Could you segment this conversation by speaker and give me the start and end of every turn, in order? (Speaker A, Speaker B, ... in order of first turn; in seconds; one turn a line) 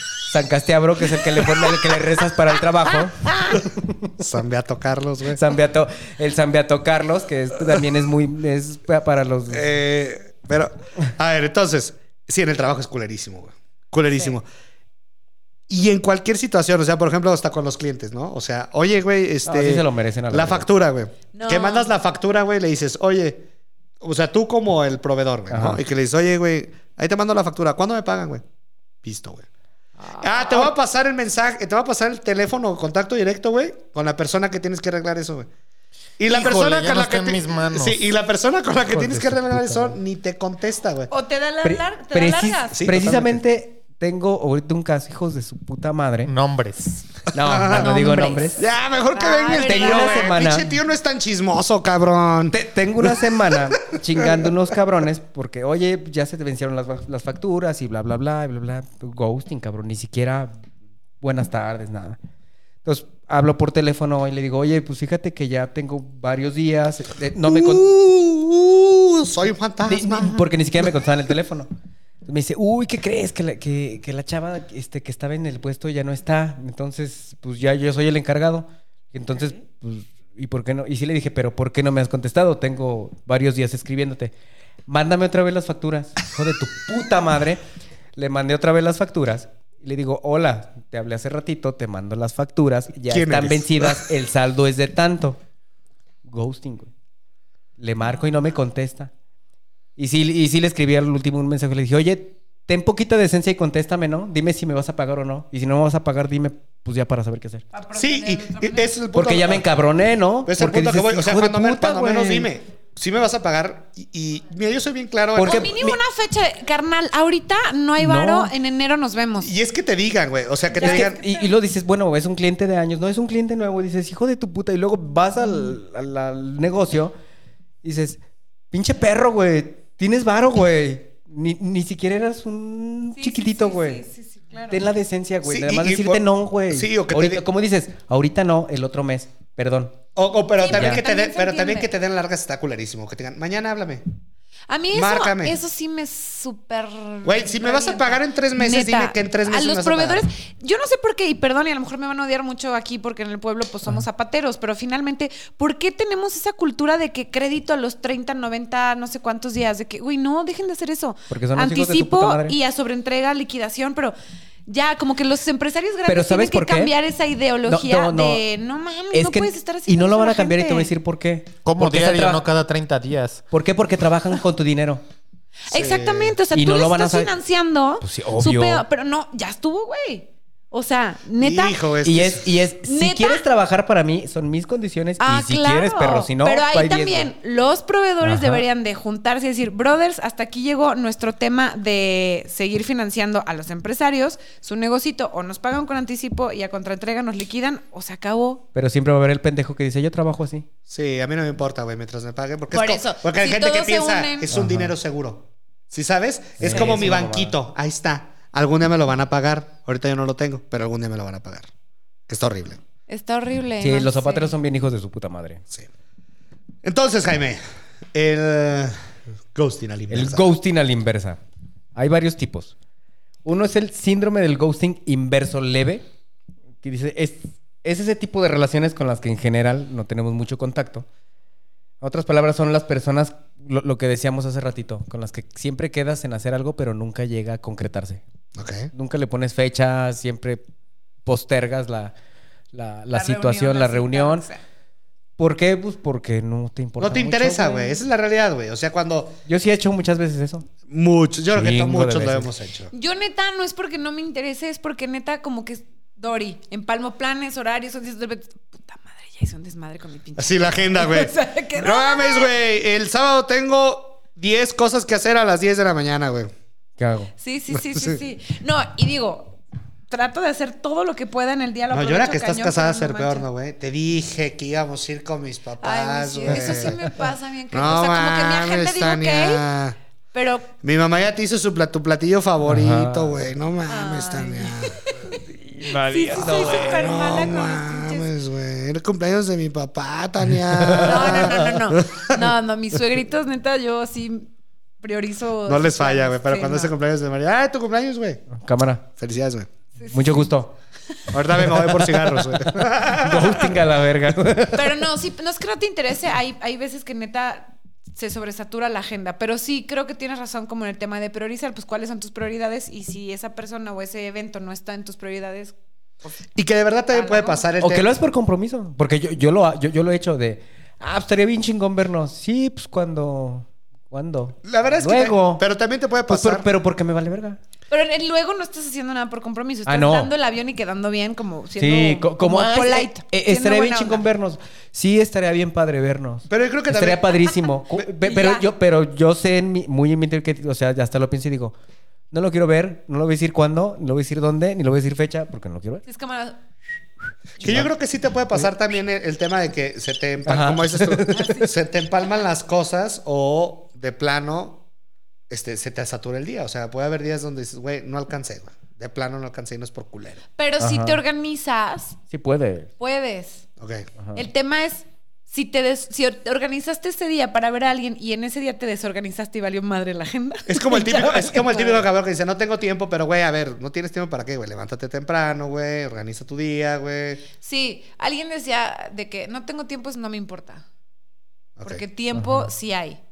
Speaker A: 0.3-4.1
Speaker B: 4.2-5.4
Speaker A: 5.3-9.7
Speaker B: 9.5-14.4
Speaker B: 15.7-23.4
Speaker A: 19.4-20.7
Speaker C: 21.3-21.9
Speaker B: 24.0-28.4
Speaker A: 25.5-25.8
Speaker B: 29.0-29.5
Speaker C: 30.0-30.7
Speaker B: 30.1-35.5
Speaker B: 36.2-41.1
Speaker D: 36.3-38.1
Speaker A: 39.0-39.9
Speaker C: 41.1-42.8
Speaker A: 41.6-46.3
Speaker B: 42.7-43.4
Speaker D: 46.2-47.1
Speaker A: 47.3-48.6
Speaker B: 47.3-47.9
Speaker C: 47.6-50.3
Speaker B: 48.6-53.3
Speaker A: 49.6-50.8
Speaker A: 52.5-60.5
Speaker B: 54.2-54.5
Speaker A: 61.2-62.2
Speaker A: 62.8-67.9
Speaker B: 67.4-70.5
Speaker A: 69.8-71.7
Speaker A: 72.2-84.3
Speaker A: 84.9-87.6
Speaker A: 88.2-95.4
Speaker B: 93.1-94.1
Speaker A: 96.2-96.9
Speaker A: 97.8-99.1
Speaker A: 100.0-107.6
Speaker C: 107.7-108.9
Speaker B: 107.9-109.6
Speaker A: 109.1-112.5
Speaker B: 110.4-115.7
Speaker A: 115.3-116.0
Speaker C: 115.4-119.5
Speaker A: 118.0-118.5
Speaker B: 119.4-121.2
Speaker C: 120.7-121.5
Speaker A: 120.8-127.1
Speaker A: 127.8-128.2
Speaker A: 128.7-134.0
Speaker C: 133.2-134.8
Speaker A: 134.7-140.0
Speaker B: 135.4-137.4
Speaker B: 140.2-144.0
Speaker C: 140.6-141.9
Speaker A: 140.7-141.0
Speaker C: 144.7-164.2
Speaker B: 144.9-145.6
Speaker B: 147.2-150.3
Speaker A: 161.3-162.6
Speaker C: 164.7-170.9
Speaker A: 166.1-166.9
Speaker A: 167.6-168.4
Speaker A: 169.1-172.4
Speaker D: 171.6-173.4
Speaker A: 173.5-175.0
Speaker C: 175.7-181.8
Speaker B: 175.7-176.4
Speaker A: 176.5-177.3
Speaker A: 178.0-178.8
Speaker B: 181.4-182.6
Speaker A: 182.0-187.3
Speaker C: 182.8-183.4
Speaker C: 185.2-198.6
Speaker A: 188.2-188.6
Speaker A: 198.7-200.7
Speaker B: 200.9-211.7
Speaker C: 202.7-204.5
Speaker A: 204.5-204.9
Speaker A: 206.6-207.5
Speaker B: 212.3-212.8
Speaker C: 213.1-214.5
Speaker A: 213.8-215.6
Speaker B: 216.8-217.6
Speaker B: 218.1-218.9
Speaker B: 219.5-220.5
Speaker A: 220.1-221.4
Speaker A: 221.9-222.7
Speaker A: 223.4-226.0
Speaker A: 226.8-231.1
Speaker A: 232.0-238.2
Speaker B: 238.6-238.9
Speaker A: 238.9-240.6
Speaker A: 241.2-242.1
Speaker A: 242.7-244.5
Speaker C: 243.1-244.6
Speaker A: 245.4-248.0
Speaker B: 247.0-249.4
Speaker A: 249.5-250.7
Speaker B: 250.9-252.9
Speaker A: 251.5-252.5
Speaker C: 252.9-262.5
Speaker B: 260.4-266.5
Speaker A: 267.0-267.3
Speaker C: 267.4-269.6
Speaker B: 267.7-268.2
Speaker C: 270.1-273.4
Speaker B: 271.9-277.0
Speaker C: 275.8-279.6
Speaker A: 276.5-277.1
Speaker B: 277.7-280.0
Speaker C: 280.3-280.7
Speaker B: 280.8-285.1
Speaker A: 282.6-283.4
Speaker C: 283.9-285.4
Speaker A: 285.5-287.0
Speaker C: 285.9-288.3
Speaker B: 286.4-292.5
Speaker A: 290.7-291.5
Speaker C: 291.0-296.9
Speaker B: 295.6-298.4
Speaker A: 298.5-299.0
Speaker B: 299.2-299.7
Speaker C: 300.0-300.5
Speaker A: 300.1-300.7
Speaker B: 301.3-303.8
Speaker A: 301.6-305.0
Speaker C: 304.7-315.7
Speaker B: 316.6-318.1
Speaker C: 317.1-317.7
Speaker A: 317.8-325.6
Speaker B: 324.6-326.7
Speaker A: 326.3-327.6
Speaker C: 327.9-334.2
Speaker A: 329.9-330.3
Speaker A: 331.8-341.7
Speaker B: 336.5-337.4
Speaker C: 338.2-338.6
Speaker A: 342.3-346.0
Speaker C: 346.1-346.6
Speaker B: 347.6-354.8
Speaker A: 347.6-347.9
Speaker A: 350.4-351.6
Speaker B: 355.5-360.4
Speaker C: 360.6-362.2
Speaker A: 360.8-361.2
Speaker A: 362.3-362.9
Speaker C: 363.0-363.6
Speaker B: 363.8-364.1
Speaker C: 364.3-372.0
Speaker B: 370.7-377.4
Speaker C: 377.6-380.8
Speaker B: 381.8-382.0
Speaker C: 381.8-383.2
Speaker A: 382.3-382.7